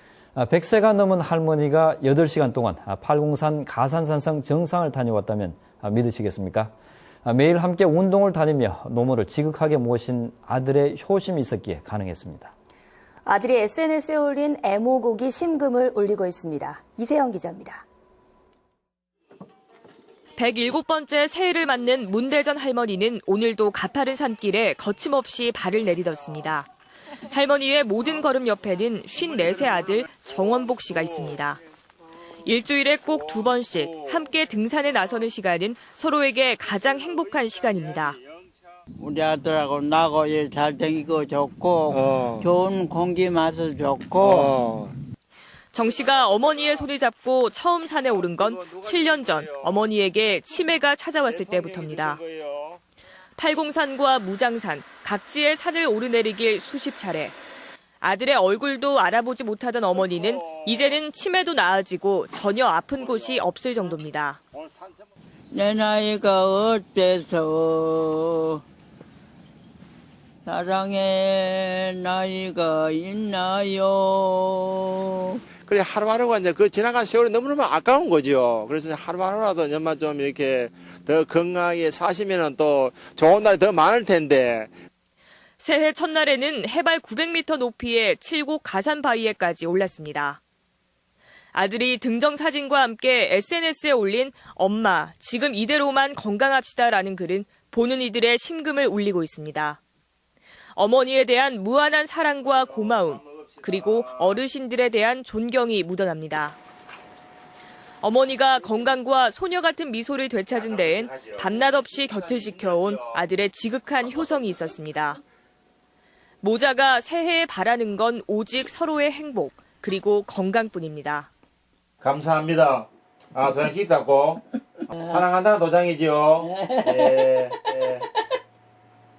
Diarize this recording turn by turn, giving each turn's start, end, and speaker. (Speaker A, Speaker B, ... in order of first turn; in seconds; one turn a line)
Speaker A: 0.3-6.7
Speaker A: 7.2-12.5
Speaker B: 13.2-17.8
Speaker C: 20.4-26.7
Speaker C: 27.3-31.6
Speaker D: 29.2-30.9
Speaker C: 32.4-38.2
Speaker D: 33.5-34.1
Speaker E: 39.0-44.5
Speaker D: 41.9-42.5
Speaker D: 44.2-44.9
Speaker C: 45.7-52.2
Speaker D: 46.0-46.8
Speaker D: 48.2-49.7
Speaker D: 51.3-52.8
Speaker C: 53.4-57.4
Speaker C: 58.0-64.4
Speaker E: 65.5-68.6
Speaker E: 70.4-75.4
Speaker D: 75.7-84.7
Speaker C: 85.6-90.4
Speaker C: 91.5-99.8
Speaker C: 100.7-106.6
Speaker D: 103.1-104.2
Speaker C: 108.0-115.2
Speaker D: 110.5-113.1
Speaker C: 116.4-121.3
Speaker D: 122.0-128.1